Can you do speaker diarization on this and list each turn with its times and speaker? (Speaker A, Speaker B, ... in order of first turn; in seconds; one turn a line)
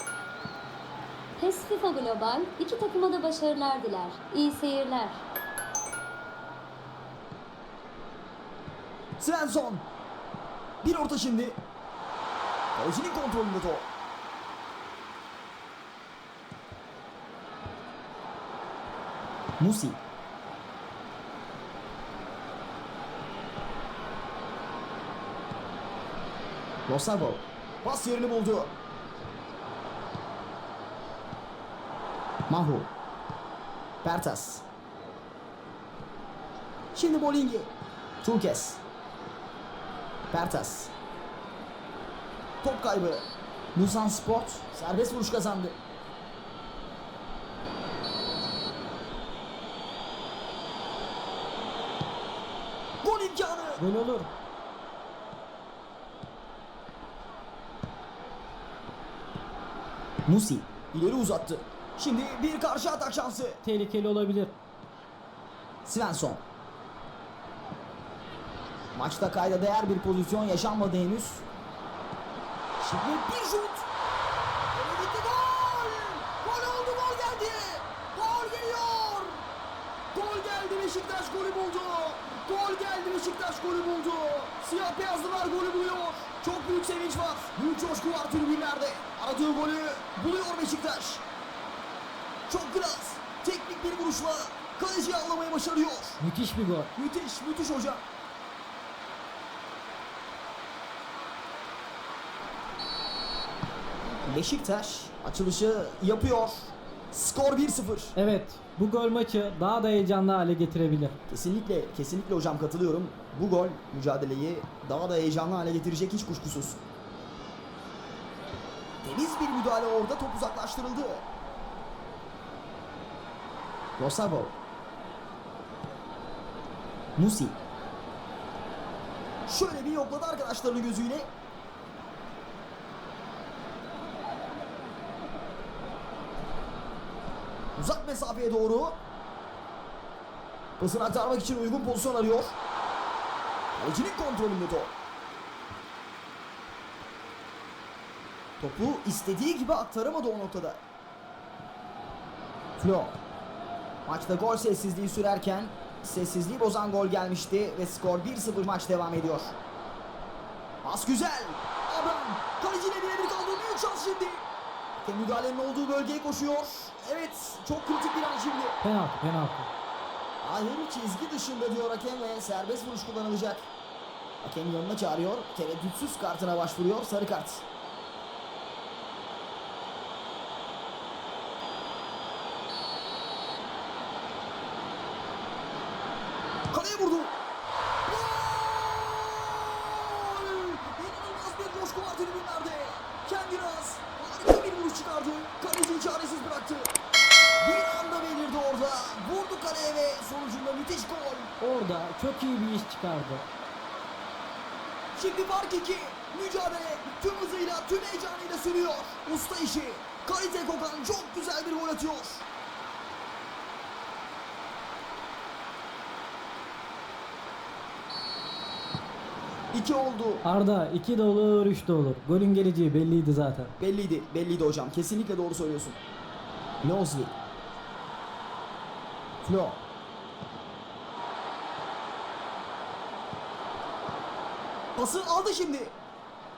Speaker A: 1.4-5.3
Speaker B: 9.2-9.9
Speaker B: 10.8-11.6
Speaker B: 12.8-13.9
Speaker B: 19.6-20.0
Speaker B: 26.9-28.7
Speaker B: 32.5-32.9
Speaker B: 34.0-34.7
Speaker B: 36.9-37.7
Speaker B: 38.2-38.8
Speaker B: 40.3-40.9
Speaker B: 42.6-45.8
Speaker B: 53.0-53.8
Speaker C: 53.8-54.3
Speaker B: 60.3-63.6
Speaker C: 63.6-64.5
Speaker B: 65.8-66.4
Speaker B: 68.9-71.5
Speaker B: 72.8-73.9
Speaker B: 74.7-79.4
Speaker B: 80.1-91.2
Speaker B: 92.5-96.2
Speaker C: 96.2-96.9
Speaker B: 97.0-98.0
Speaker B: 104.2-108.2
Speaker C: 108.2-111.1
Speaker B: 111.3-116.8
Speaker B: 119.0-121.3
Speaker B: 124.0-124.5
Speaker B: 127.2-127.6
Speaker B: 129.5-131.3
Speaker B: 137.8-139.0
Speaker B: 140.8-142.6
Speaker B: 143.8-144.9
Speaker B: 148.6-150.8
Speaker B: 152.8-153.2
Speaker B: 154.1-159.6
Speaker B: 160.8-164.5
Speaker B: 165.0-168.8
Speaker C: 168.8-169.7
Speaker B: 170.4-173.7
Speaker B: 174.4-177.7
Speaker B: 186.7-187.4
Speaker B: 188.1-197.0
Speaker B: 197.6-201.5
Speaker C: 201.6-203.4
Speaker B: 205.1-212.5
Speaker B: 219.7-220.4
Speaker C: 220.4-223.7
Speaker B: 223.8-226.0
Speaker B: 226.8-227.3
Speaker B: 229.4-229.8
Speaker B: 235.0-236.0